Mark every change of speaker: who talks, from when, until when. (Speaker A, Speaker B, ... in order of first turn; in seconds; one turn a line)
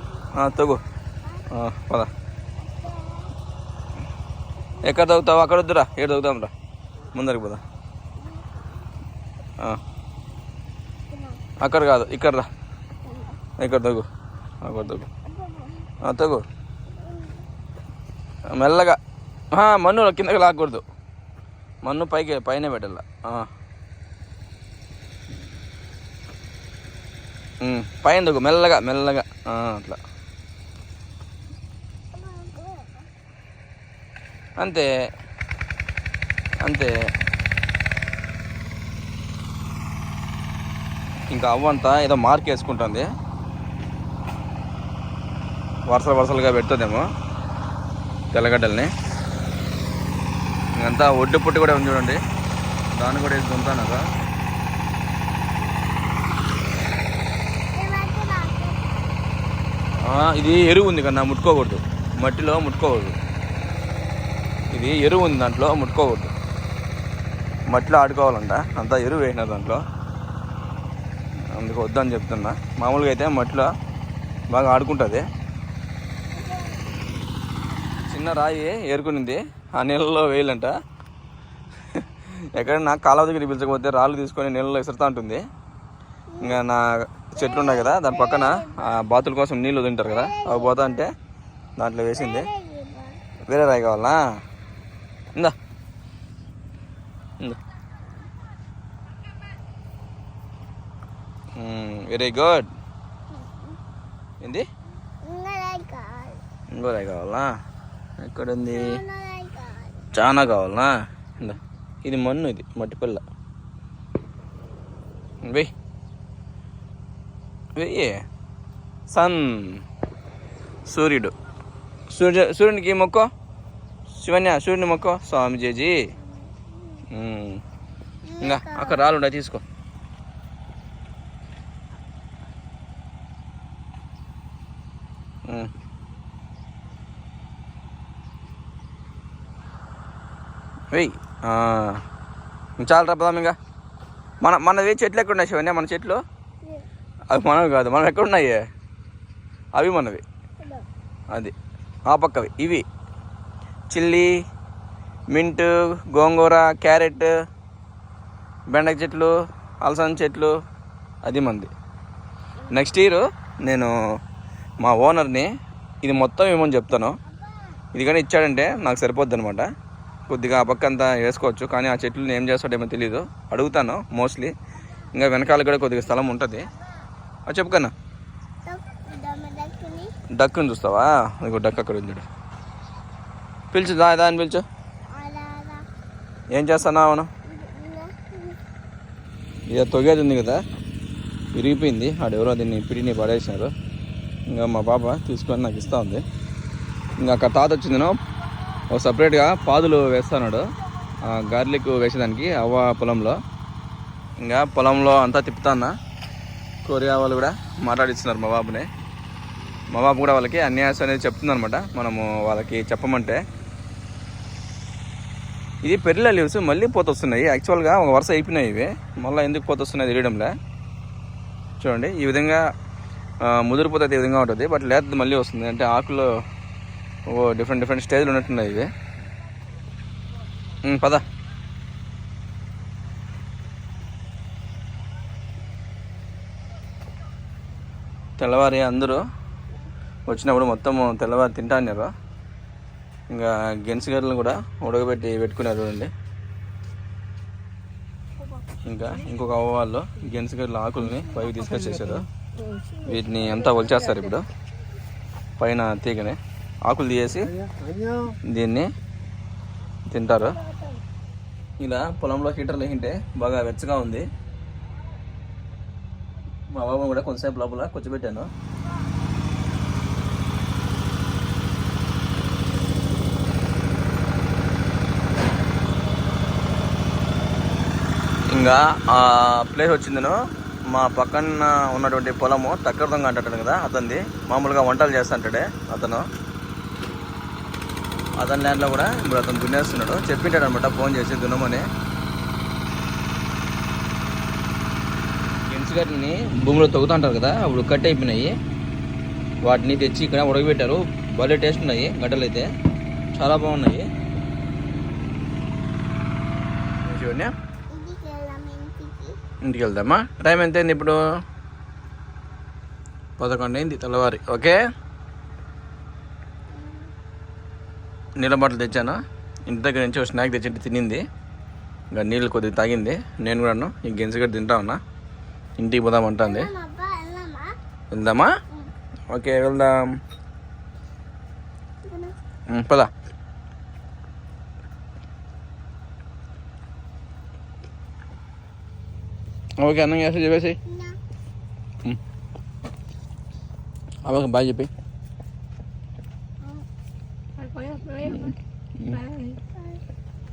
Speaker A: 0.3-0.8
Speaker A: 1.5-2.1
Speaker B: 2.6-3.3
Speaker A: 4.8-6.5
Speaker A: 7.1-7.6
Speaker B: 8.2-8.8
Speaker B: 11.1-11.4
Speaker A: 11.6-12.5
Speaker B: 13.0-13.4
Speaker A: 13.6-14.1
Speaker A: 14.6-15.1
Speaker B: 15.2-15.9
Speaker A: 16.0-16.4
Speaker B: 16.9-17.4
Speaker A: 18.6-19.0
Speaker A: 19.5-20.8
Speaker A: 21.8-23.5
Speaker A: 27.6-30.0
Speaker B: 32.1-33.0
Speaker A: 34.6-34.9
Speaker A: 36.6-36.9
Speaker A: 41.3-43.1
Speaker A: 45.9-47.0
Speaker A: 48.3-48.9
Speaker A: 50.8-52.2
Speaker A: 53.0-54.0
Speaker B: 57.7-59.2
Speaker A: 60.0-63.1
Speaker A: 64.7-66.3
Speaker A: 67.7-69.8
Speaker A: 71.5-73.7
Speaker A: 74.5-75.2
Speaker B: 76.3-76.9
Speaker A: 78.1-80.7
Speaker A: 81.9-85.4
Speaker B: 86.3-86.6
Speaker A: 86.4-91.1
Speaker B: 87.4-88.9
Speaker B: 90.0-91.0
Speaker A: 91.8-92.5
Speaker B: 92.1-93.2
Speaker A: 93.5-94.2
Speaker A: 101.6-102.7
Speaker B: 103.3-103.8
Speaker B: 105.2-106.4
Speaker A: 106.7-107.5
Speaker A: 108.2-109.0
Speaker B: 108.7-110.1
Speaker A: 110.1-113.2
Speaker A: 115.4-115.7
Speaker A: 117.8-118.1
Speaker A: 119.1-119.8
Speaker A: 120.9-121.3
Speaker A: 122.1-123.3
Speaker A: 124.2-126.0
Speaker B: 126.2-127.0
Speaker A: 127.1-127.6
Speaker B: 128.3-129.1
Speaker A: 128.4-129.6
Speaker A: 140.9-142.0
Speaker A: 142.8-143.6
Speaker A: 144.4-146.2
Speaker A: 147.3-148.6
Speaker A: 149.8-150.2
Speaker A: 152.1-152.8
Speaker A: 153.9-154.3
Speaker A: 155.3-157.3
Speaker A: 158.7-159.3
Speaker A: 159.8-160.5
Speaker A: 161.2-161.7
Speaker B: 162.6-162.9
Speaker A: 162.7-163.9
Speaker A: 164.8-165.5
Speaker A: 166.0-167.2
Speaker B: 167.3-167.8
Speaker A: 167.9-169.7
Speaker A: 170.3-174.5
Speaker A: 175.1-176.7
Speaker A: 177.5-177.9
Speaker B: 178.6-180.1
Speaker A: 180.4-182.3
Speaker A: 183.7-184.6
Speaker B: 185.1-185.8
Speaker A: 186.5-187.3
Speaker B: 187.4-188.6
Speaker A: 189.7-190.6
Speaker A: 191.5-193.7
Speaker A: 194.5-196.2
Speaker A: 197.2-198.1
Speaker A: 198.9-200.7
Speaker A: 201.2-203.4
Speaker A: 204.4-205.9
Speaker A: 206.8-208.9
Speaker A: 209.9-213.4
Speaker A: 215.8-220.5
Speaker A: 221.8-222.6
Speaker A: 223.4-226.3
Speaker A: 227.3-228.9
Speaker A: 230.8-231.2
Speaker A: 238.4-239.2
Speaker A: 240.3-242.1
Speaker A: 243.3-246.1
Speaker A: 248.8-252.2
Speaker A: 253.0-254.4
Speaker A: 255.6-257.5
Speaker A: 258.4-258.9
Speaker A: 260.1-260.6
Speaker A: 261.8-264.3
Speaker A: 266.7-268.5
Speaker A: 278.5-286.2
Speaker A: 288.4-291.9
Speaker A: 295.7-298.5
Speaker A: 299.7-302.7
Speaker A: 303.4-304.0
Speaker A: 307.1-307.5
Speaker B: 307.9-309.4
Speaker A: 309.6-311.2
Speaker A: 313.4-314.8
Speaker B: 316.7-317.1
Speaker A: 318.4-321.2
Speaker A: 322.1-325.0
Speaker A: 325.8-326.7
Speaker B: 326.4-327.7
Speaker A: 328.1-328.5
Speaker A: 329.3-329.9
Speaker B: 332.1-332.3
Speaker A: 332.7-333.1
Speaker A: 339.8-340.8
Speaker B: 340.9-341.2
Speaker A: 344.2-344.9
Speaker A: 348.2-349.3
Speaker B: 349.7-350.0